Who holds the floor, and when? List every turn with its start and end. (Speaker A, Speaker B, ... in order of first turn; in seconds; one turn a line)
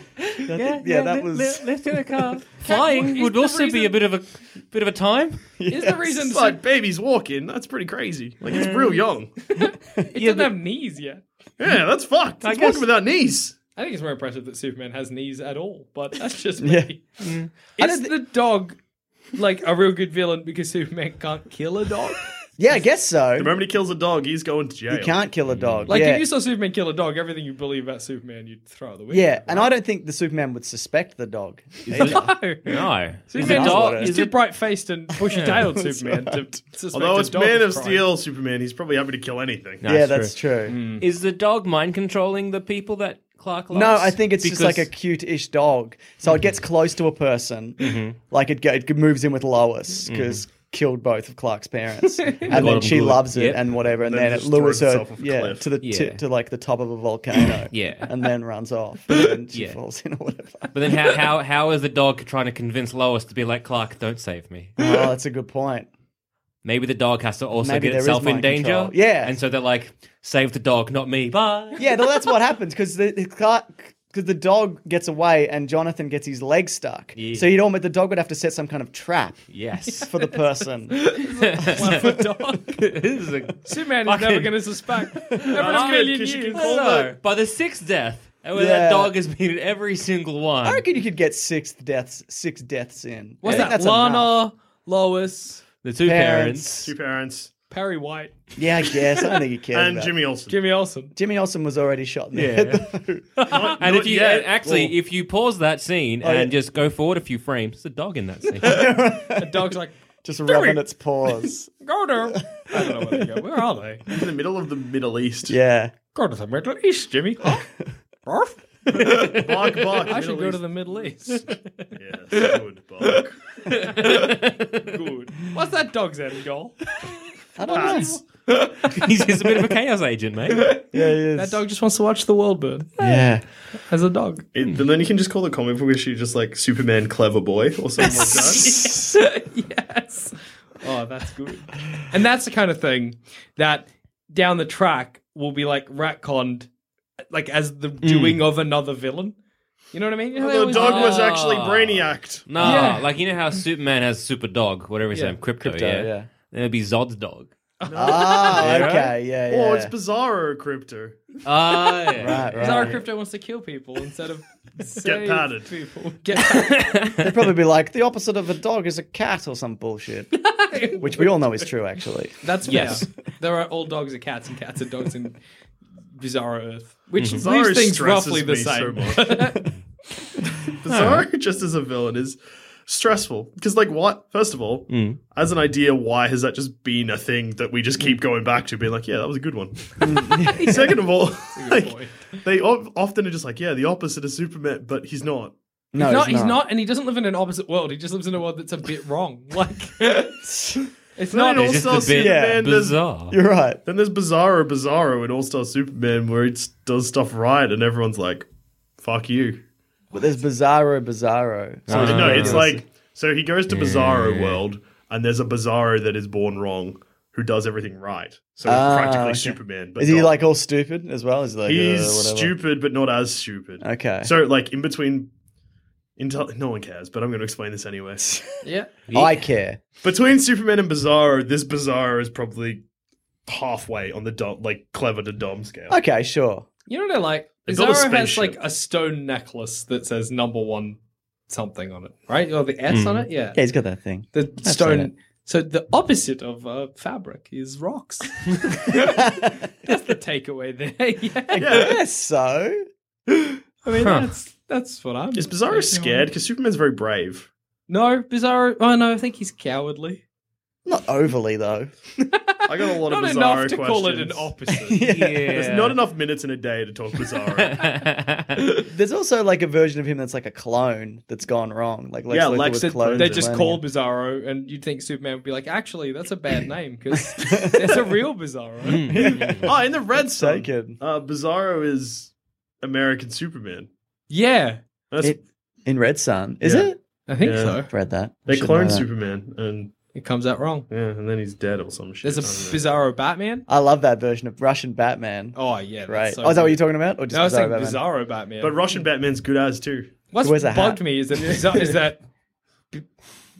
Speaker A: 0.3-5.4
Speaker B: 0.4-1.7
Speaker C: 2.6-3.9
Speaker B: 5.6-6.2
Speaker C: 5.7-6.6
Speaker D: 6.2-9.3
Speaker A: 8.5-9.0
Speaker C: 9.6-11.2
Speaker A: 10.1-10.5
Speaker D: 11.6-13.5
Speaker A: 12.4-12.9
Speaker C: 13.8-17.0
Speaker B: 16.6-16.9
Speaker A: 17.2-17.5
Speaker C: 17.8-18.8
Speaker B: 17.8-18.1
Speaker C: 19.3-22.3
Speaker B: 22.6-23.6
Speaker D: 23.4-25.2
Speaker B: 24.9-26.3
Speaker A: 25.5-25.9
Speaker C: 25.9-29.7
Speaker B: 29.1-32.4
Speaker A: 31.9-34.4
Speaker C: 31.9-38.0
Speaker B: 33.3-34.1
Speaker A: 35.3-35.6
Speaker B: 35.3-36.5
Speaker D: 36.9-39.8
Speaker A: 39.8-40.3
Speaker B: 39.8-40.8
Speaker C: 40.7-41.0
Speaker A: 41.0-44.9
Speaker B: 43.7-61.0
Speaker A: 47.8-48.1
Speaker A: 50.1-50.4
Speaker C: 52.2-52.5
Speaker A: 52.5-53.6
Speaker D: 54.0-55.6
Speaker A: 55.8-56.2
Speaker A: 57.7-58.1
Speaker A: 59.5-59.8
Speaker A: 60.7-64.8
Speaker B: 64.8-65.9
Speaker A: 66.6-71.8
Speaker B: 67.6-69.3
Speaker B: 71.8-79.4
Speaker A: 77.2-77.5
Speaker A: 79.5-80.1
Speaker B: 80.0-81.2
Speaker C: 80.9-82.8
Speaker A: 81.2-90.8
Speaker B: 81.8-82.1
Speaker C: 83.6-86.7
Speaker D: 85.5-87.1
Speaker B: 88.5-89.1
Speaker B: 90.6-94.3
Speaker C: 93.4-95.6
Speaker A: 93.5-93.7
Speaker A: 95.8-96.9
Speaker B: 96.0-96.9
Speaker D: 96.8-97.5
Speaker C: 97.7-98.3
Speaker B: 98.6-100.1
Speaker D: 99.7-100.6
Speaker C: 100.5-101.1
Speaker B: 101.1-103.3
Speaker A: 102.3-108.9
Speaker D: 103.5-104.9
Speaker B: 106.2-106.5
Speaker B: 108.6-109.7
Speaker C: 108.7-110.8
Speaker B: 110.2-111.7
Speaker C: 111.4-114.0
Speaker D: 114.1-115.6
Speaker B: 115.5-115.9
Speaker C: 116.1-117.7
Speaker C: 118.2-119.3
Speaker A: 119.1-120.1
Speaker D: 119.2-121.4
Speaker C: 120.1-121.8
Speaker D: 122.0-123.4
Speaker A: 123.7-124.8
Speaker C: 124.0-126.8
Speaker B: 127.6-128.2
Speaker D: 127.7-128.2
Speaker C: 127.7-129.1
Speaker A: 128.8-130.8
Speaker C: 130.5-130.8
Speaker B: 130.9-131.6
Speaker C: 131.3-133.3
Speaker B: 133.0-133.4
Speaker C: 133.9-134.4
Speaker D: 134.5-138.9
Speaker C: 138.0-146.7
Speaker C: 147.3-149.3
Speaker A: 148.0-148.4
Speaker C: 149.9-151.3
Speaker D: 150.3-152.8
Speaker A: 150.7-157.5
Speaker C: 152.6-153.1
Speaker B: 155.6-156.3
Speaker C: 157.8-158.5
Speaker D: 157.8-158.9
Speaker B: 157.9-159.9
Speaker A: 158.4-159.1
Speaker D: 159.5-161.4
Speaker A: 161.4-162.9
Speaker B: 162.2-163.0
Speaker C: 162.6-167.0
Speaker D: 165.0-165.7
Speaker A: 166.5-167.3
Speaker B: 167.2-170.4
Speaker C: 170.3-171.7
Speaker B: 170.9-173.0
Speaker C: 172.4-175.4
Speaker A: 172.7-173.0
Speaker C: 176.2-179.6
Speaker D: 177.3-179.5
Speaker D: 180.8-195.5
Speaker A: 180.9-181.2
Speaker A: 184.9-185.2
Speaker B: 190.0-190.9
Speaker C: 190.5-192.3
Speaker B: 195.9-196.6
Speaker C: 196.0-200.4
Speaker C: 201.2-201.9
Speaker D: 201.3-203.0
Speaker A: 201.5-203.4
Speaker B: 202.1-202.7
Speaker B: 203.3-203.8
Speaker D: 203.8-208.5
Speaker D: 209.0-209.6
Speaker B: 210.1-212.8
Speaker A: 211.9-212.7
Speaker D: 211.9-220.3
Speaker A: 213.7-214.6
Speaker B: 218.6-222.5
Speaker D: 221.7-225.3
Speaker B: 223.8-224.3
Speaker D: 226.2-228.3
Speaker C: 228.6-228.9
Speaker A: 229.1-229.4
Speaker B: 229.1-229.8
Speaker D: 230.0-232.8
Speaker D: 233.4-236.0
Speaker B: 235.9-236.7
Speaker C: 236.9-241.0
Speaker D: 237.7-238.6
Speaker C: 241.5-243.6
Speaker A: 242.9-243.2
Speaker B: 243.5-245.1
Speaker C: 244.3-249.2
Speaker B: 248.9-249.7
Speaker C: 249.8-251.6
Speaker B: 251.5-252.8
Speaker D: 251.6-252.0
Speaker C: 253.4-256.3
Speaker A: 253.9-254.3
Speaker D: 255.3-257.5
Speaker C: 257.9-260.2
Speaker B: 260.9-261.9
Speaker C: 262.2-265.0
Speaker D: 262.7-264.5
Speaker B: 264.9-265.6
Speaker A: 265.1-266.0
Speaker D: 265.5-267.9
Speaker A: 267.7-268.8
Speaker B: 268.9-273.8
Speaker D: 272.3-273.5
Speaker C: 272.8-279.0
Speaker B: 277.1-278.1
Speaker A: 278.9-279.7
Speaker B: 279.0-281.0
Speaker D: 279.6-283.9
Speaker C: 284.3-284.8
Speaker D: 285.1-285.4
Speaker B: 285.2-287.0
Speaker D: 286.6-286.9
Speaker C: 287.3-287.9
Speaker D: 287.4-287.8
Speaker B: 287.9-289.1
Speaker D: 288.4-289.9
Speaker C: 290.1-290.9
Speaker D: 290.9-292.9
Speaker C: 292.2-293.6
Speaker B: 293.7-298.0
Speaker C: 295.5-298.8
Speaker D: 298.6-300.1
Speaker C: 300.3-302.2
Speaker B: 300.4-301.9